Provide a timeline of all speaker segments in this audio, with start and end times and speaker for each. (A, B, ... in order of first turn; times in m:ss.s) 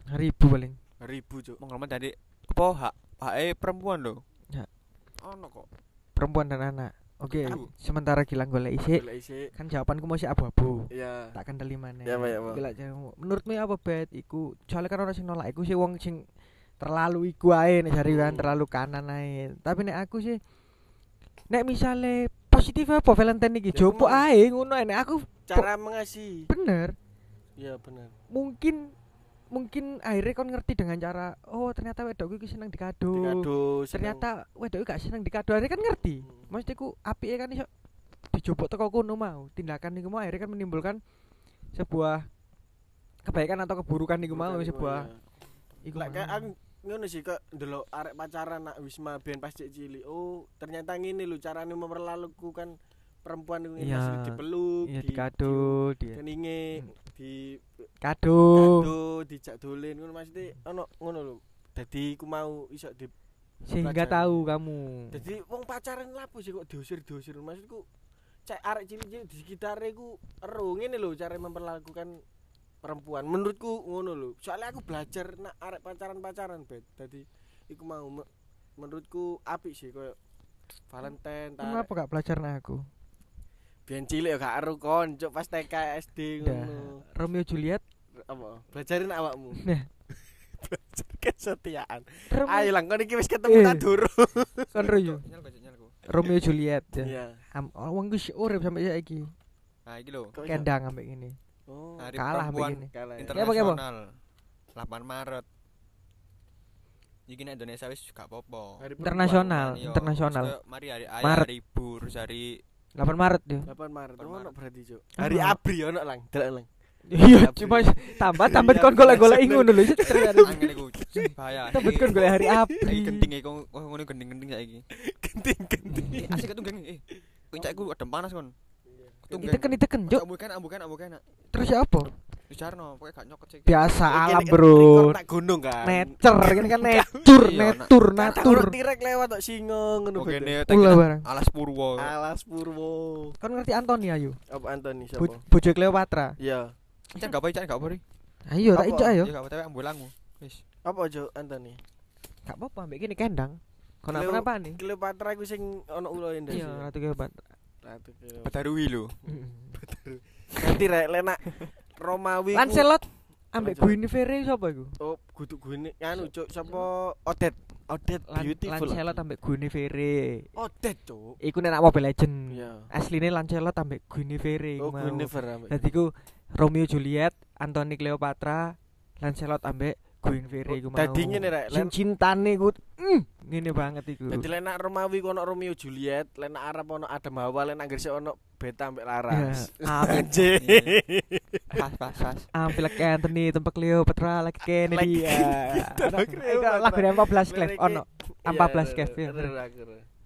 0:00.1-0:00.8 A
0:01.0-0:01.6 B
0:01.6-0:04.2 C
0:05.2-0:05.7 C
0:06.2-0:09.0 A
0:07.4-0:07.7 C
0:08.9-0:09.5 B
0:09.5-0:16.2 A
0:10.9-0:11.4 B
0:12.1-0:12.6 B
0:16.8-0:20.4 A
0:18.0-0:18.6 B
0:21.5-0:25.7 A
0:23.7-0:24.2 B
0:25.5-0:26.5 B
0:26.5-0:27.0 A
0:27.6-0:28.1 B
0:28.3-0:28.9 A
0:29.5-0:37.7 A
0:33.1-0:34.2 B
0:36.2-0:36.5 B
0:38.3-0:41.0 A
0:41.7-0:42.3 A
0:43.2-0:45.1 A
0:44.3-0:45.2 B
0:45.8-0:46.5 A
0:46.0-0:52.7 B
0:53.2-0:57.9 B
0:53.8-0:56.2 A
0:58.0-0:58.9 A
0:58.6-1:03.1 B
1:03.7-1:05.2 A
1:03.8-1:04.4 B
1:05.1-1:07.8 B
1:08.5-1:12.2 B
1:12.8-1:18.3 B
1:18.8-1:20.2 B
1:20.9-1:21.9 B
1:21.6-1:22.8 A
1:23.9-1:27.0 B
1:26.4-1:27.8 A
1:28.2-1:29.6 B
1:29.6-1:29.9 A
1:30.6-1:35.0 B
1:32.3-1:32.7 A
1:33.5-1:33.8 A
1:34.7-1:35.2 A
1:35.1-1:36.0 C
1:36.1-1:39.3 A
1:37.0-1:37.4 B
1:39.9-1:40.4 C
1:40.3-1:40.7 B
1:40.4-1:41.4 A
1:41.7-1:42.2 B
1:42.0-1:44.2 C
1:42.2-1:43.8 A
1:42.9-1:43.4 B
1:44.8-1:45.5 C
1:47.3-1:48.8 C
1:48.8-1:49.8 B
1:49.0-1:50.5 A
1:49.6-1:52.6 C
1:51.2-1:51.5 A
1:53.0-1:53.7 A
1:53.7-1:56.7 B
1:54.2-1:54.5 C
1:55.2-1:55.6 A
1:57.1-2:00.6 A
1:57.2-2:02.7 B
2:00.4-2:02.3 C
2:01.7-2:03.3 A
2:02.8-2:04.8 C
2:04.9-2:06.3 B
2:05.9-2:06.4 A
2:06.2-2:08.5 C
2:08.9-2:09.5 B
2:09.3-2:11.2 C
2:09.3-2:10.2 A
2:11.5-2:12.1 A
2:12.5-2:13.8 C
2:13.7-2:15.2 A
2:14.1-2:17.1 B
2:15.8-2:18.8 A
2:17.2-2:18.4 C
2:18.2-2:20.6 B
2:20.2-2:22.1 C
2:20.7-2:21.3 A
2:22.0-2:23.4 B
2:23.4-2:24.4 A
2:24.5-2:25.4 B
2:25.2-2:26.4 A
2:26.4-2:26.7 B
2:27.1-2:28.0 C
2:28.5-2:29.3 A
2:28.7-2:29.2 B
2:29.1-2:30.6 C
2:30.8-2:31.8 B
2:32.5-2:34.8 A
2:34.1-2:36.9 B
2:36.5-2:37.4 A
2:37.8-2:38.5 B
2:38.4-2:39.1 C
2:39.3-2:39.8 A
2:39.8-2:42.9 B
2:42.5-2:44.9 A
2:43.6-2:44.0 B
2:45.0-2:49.2 B
2:46.2-2:46.9 A
2:48.3-2:50.5 A
2:50.6-2:51.4 B
2:51.4-3:04.5 A
2:52.5-2:52.9 B
2:54.8-2:55.9 B
3:00.7-3:01.9 B
3:04.3-3:11.8 B
3:09.3-3:10.4 A
3:10.6-3:11.0 C
3:11.7-3:12.5 C
3:12.6-3:19.5 A
3:14.9-3:20.0 B